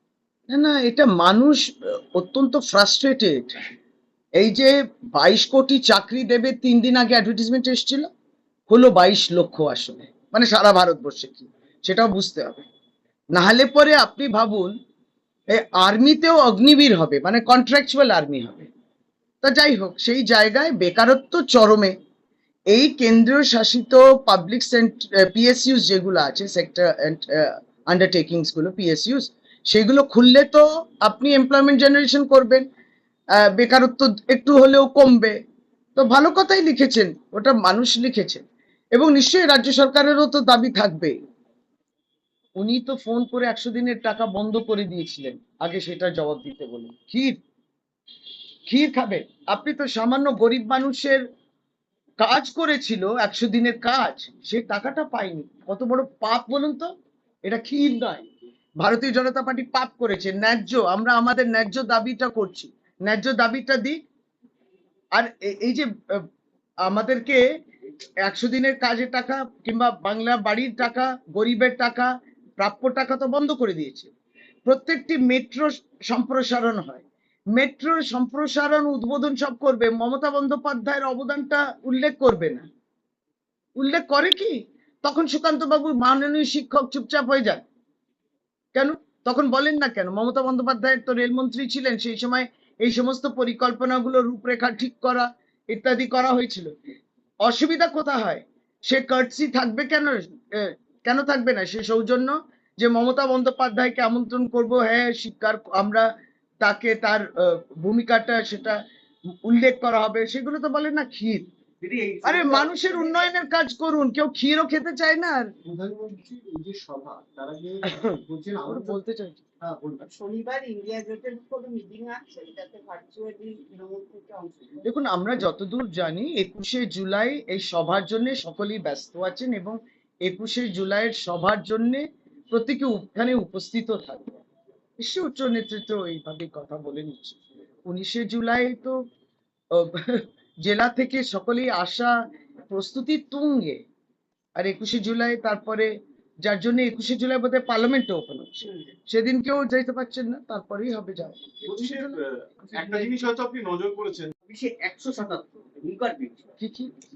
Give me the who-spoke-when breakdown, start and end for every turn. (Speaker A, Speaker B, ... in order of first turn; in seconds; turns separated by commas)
Speaker A: 0.5-3.6, Speaker A: 4.4-8.1, Speaker A: 8.7-12.6, Speaker A: 13.3-14.7, Speaker A: 15.5-18.7, Speaker A: 19.4-21.9, Speaker A: 22.7-32.6, Speaker A: 33.4-35.4, Speaker A: 36.0-38.4, Speaker A: 38.9-41.1, Speaker A: 42.6-47.4, Speaker A: 48.7-51.2, Speaker A: 52.2-56.9, Speaker A: 57.4-58.3, Speaker A: 58.8-64.0, Speaker A: 65.1-66.2, Speaker A: 66.8-67.4, Speaker A: 68.2-74.1, Speaker A: 74.7-82.7, Speaker A: 83.8-87.6, Speaker A: 88.7-96.7, Speaker A: 97.4-106.1, Speaker A: 106.6-108.8, Speaker A: 109.4-111.5, Speaker B: 111.8-113.2, Speaker A: 112.2-115.5, Speaker C: 115.6-119.0, Speaker A: 118.7-119.4, Speaker C: 119.6-120.1, Speaker D: 120.0-124.8, Speaker A: 124.8-134.4, Speaker A: 135.0-139.0, Speaker A: 139.7-142.1, Speaker A: 142.7-143.8, Speaker A: 144.6-145.9, Speaker A: 146.4-152.2, Speaker E: 151.6-154.3, Speaker B: 154.5-156.5, Speaker A: 156.6-156.9